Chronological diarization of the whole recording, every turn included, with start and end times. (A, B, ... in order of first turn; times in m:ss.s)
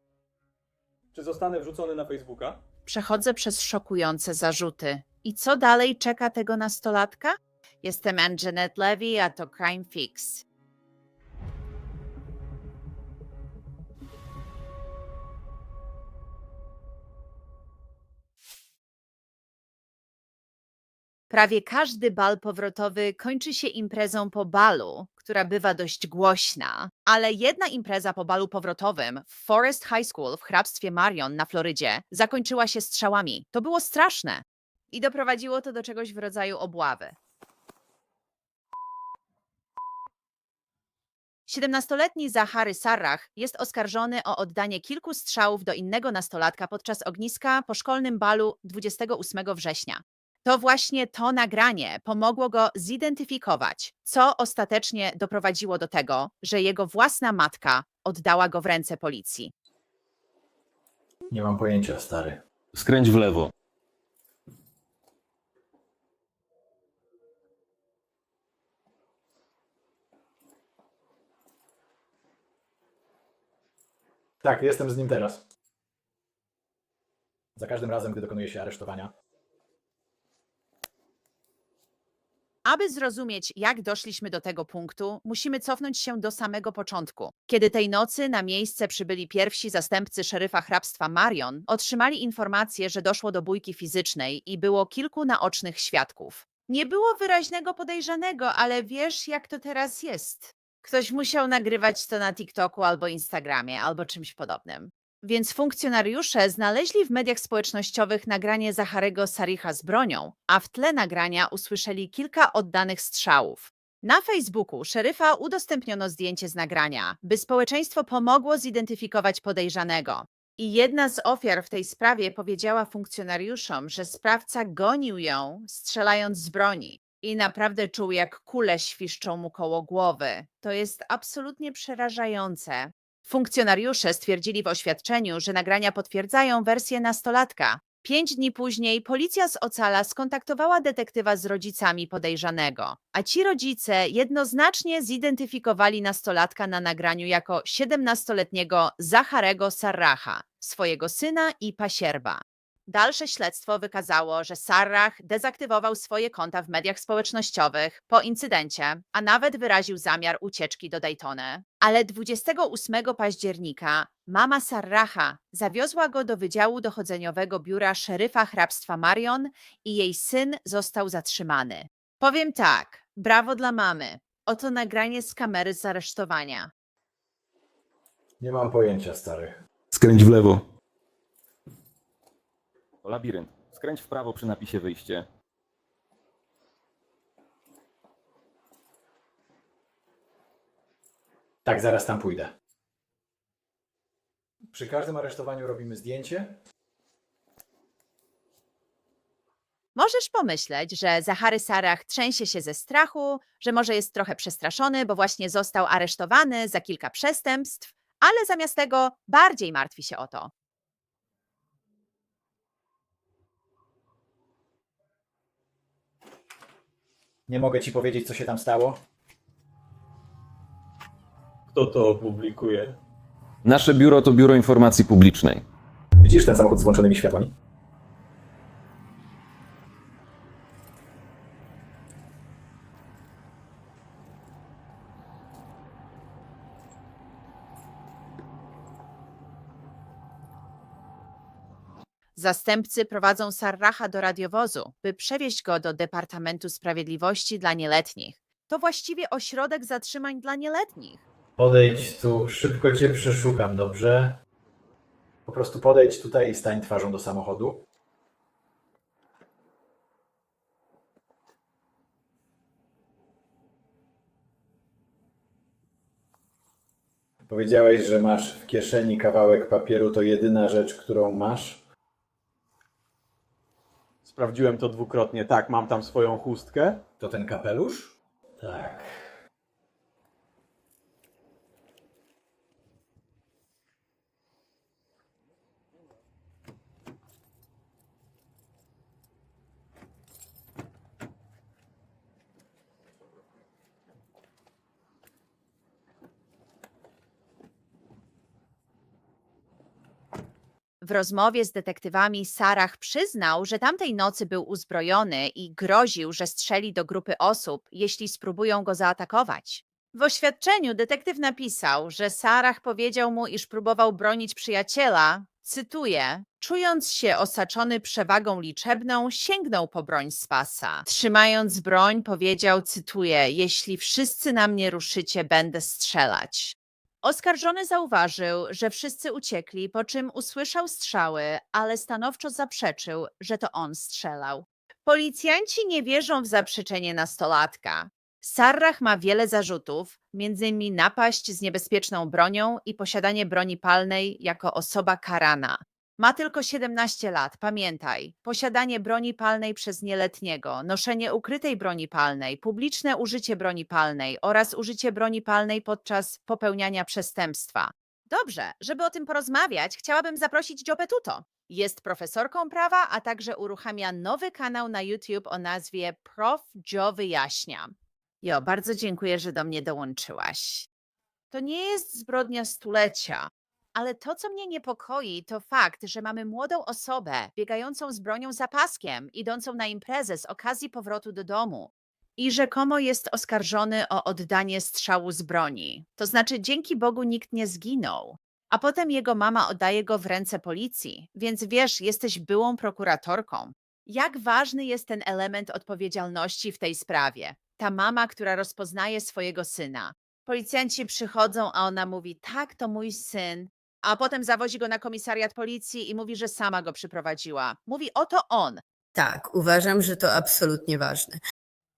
0:01.1-0:02.6 A
0:02.9-0:10.4 B
0:21.3-0:37.2 B
0:41.5-0:59.5 B
1:01.3-1:02.4 C
1:02.7-1:03.5 D
1:14.4-1:15.4 C
1:17.5-1:19.1 C
1:22.7-2:56.7 B
2:58.4-2:59.6 C
2:59.9-3:00.6 D
3:03.0-3:05.2 D
3:11.6-3:12.5 C
3:14.7-3:16.6 C
3:20.0-3:30.5 B
3:37.5-3:39.0 C
3:41.7-3:43.0 A
3:43.6-3:45.6 D
3:46.2-3:47.5 C
4:02.4-4:11.2 B
4:11.6-4:14.4 C
4:15.4-4:17.8 C
4:27.5-4:31.8 C
4:34.2-4:37.0 A
4:37.2-4:39.3 C
5:01.0-6:07.9 B
6:08.4-6:10.9 B
6:11.5-6:48.8 B
6:49.2-6:51.4 E